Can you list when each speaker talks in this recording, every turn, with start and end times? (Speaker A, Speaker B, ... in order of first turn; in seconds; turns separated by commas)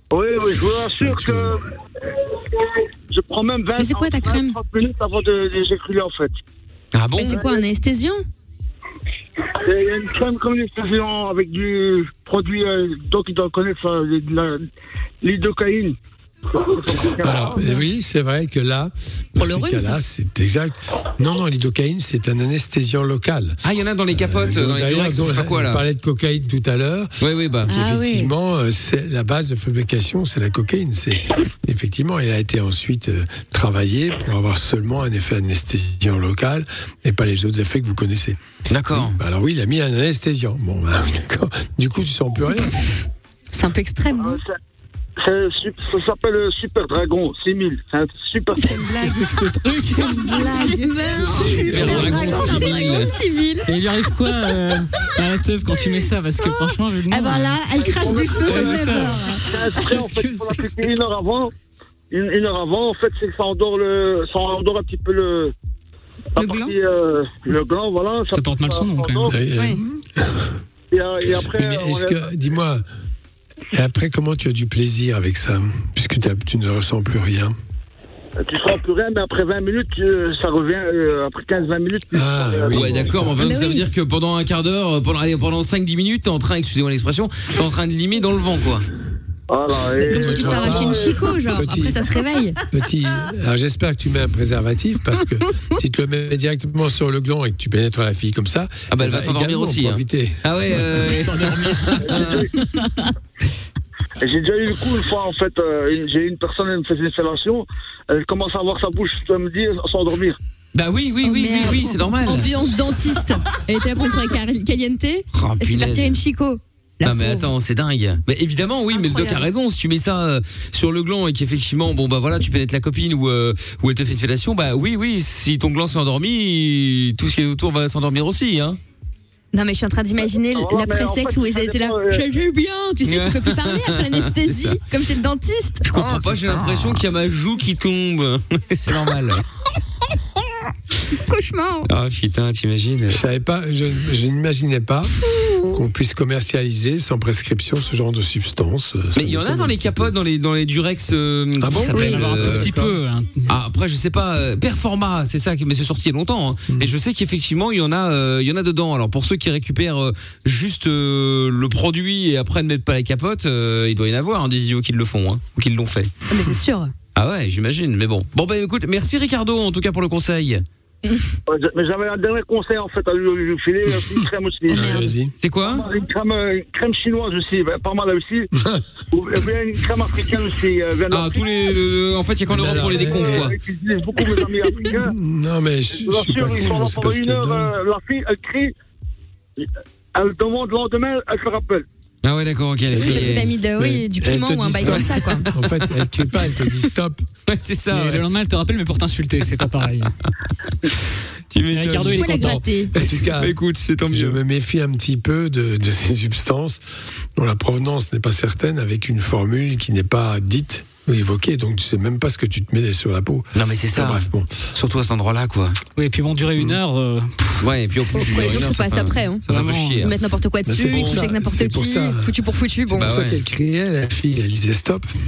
Speaker A: 0.1-6.3, Speaker B: 1.0-1.6, Speaker C: 3.8-4.6, Speaker D: 6.9-7.4, Speaker C: 7.2-8.2, Speaker A: 9.6-14.7, Speaker A: 15.2-16.0, Speaker A: 16.5-17.8, Speaker B: 17.2-27.1, Speaker C: 19.4-20.0, Speaker D: 23.6-25.8, Speaker D: 27.2-27.7, Speaker B: 27.7-38.4, Speaker C: 27.7-28.3, Speaker D: 38.7-39.2, Speaker B: 38.9-42.8, Speaker C: 43.5-44.4, Speaker A: 44.2-44.5, Speaker A: 45.2-48.9, Speaker E: 48.6-52.9, Speaker F: 49.0-50.5, Speaker C: 50.5-53.7, Speaker D: 51.5-53.1, Speaker F: 51.6-52.3, Speaker F: 53.7-57.6, Speaker E: 57.1-60.0, Speaker A: 57.8-61.5, Speaker F: 58.2-60.9, Speaker A: 62.1-65.5, Speaker A: 66.4-69.3, Speaker E: 66.4-66.8, Speaker F: 68.3-69.3, Speaker B: 69.3-70.6, Speaker E: 69.5-69.8, Speaker A: 70.9-72.3, Speaker B: 71.3-72.8, Speaker B: 73.7-77.6, Speaker A: 78.4-83.2, Speaker B: 82.1-83.3, Speaker D: 82.7-88.9, Speaker C: 83.3-83.9, Speaker A: 89.5-91.3, Speaker C: 90.0-92.6, Speaker B: 90.0-92.1, Speaker B: 92.7-101.0, Speaker D: 98.9-102.5, Speaker F: 101.1-102.3, Speaker A: 102.1-102.5, Speaker C: 102.8-103.1, Speaker A: 104.2-110.4, Speaker D: 110.7-112.5, Speaker C: 111.2-117.5, Speaker D: 115.3-116.2, Speaker D: 117.0-128.8, Speaker E: 118.9-119.5, Speaker C: 129.5-136.2, Speaker A: 130.4-132.3, Speaker D: 133.0-134.8, Speaker D: 135.8-139.4, Speaker C: 141.3-141.9, Speaker D: 141.9-143.2, Speaker B: 143.1-150.1, Speaker D: 149.2-152.8, Speaker B: 151.6-153.0, Speaker F: 151.9-153.5, Speaker C: 151.9-152.3, Speaker D: 153.5-166.1, Speaker C: 166.3-166.9, Speaker D: 167.2-170.6, Speaker A: 171.5-175.0, Speaker B: 173.9-175.3, Speaker C: 174.7-175.1, Speaker D: 175.4-175.9, Speaker A: 175.6-178.5, Speaker B: 178.6-178.9, Speaker A: 179.1-181.7, Speaker D: 181.1-183.6, Speaker B: 182.5-183.5, Speaker A: 183.0-185.2, Speaker B: 184.8-187.7, Speaker A: 185.9-188.7, Speaker A: 189.6-191.9, Speaker D: 192.2-193.5, Speaker B: 192.9-197.2, Speaker C: 192.9-195.5, Speaker D: 194.8-195.7, Speaker D: 197.5-198.3, Speaker F: 197.9-200.1, Speaker D: 201.5-202.3, Speaker F: 201.7-202.7, Speaker B: 201.9-203.6, Speaker C: 202.0-202.9, Speaker D: 203.0-204.4, Speaker B: 204.1-206.8, Speaker B: 207.4-214.6, Speaker D: 213.6-215.8, Speaker F: 216.0-217.6, Speaker D: 217.6-220.1, Speaker C: 218.2-219.5, Speaker F: 218.2-218.5, Speaker F: 219.5-220.1, Speaker C: 220.0-223.1, Speaker B: 220.7-222.3, Speaker D: 220.9-221.3, Speaker B: 222.9-225.1, Speaker D: 222.9-223.4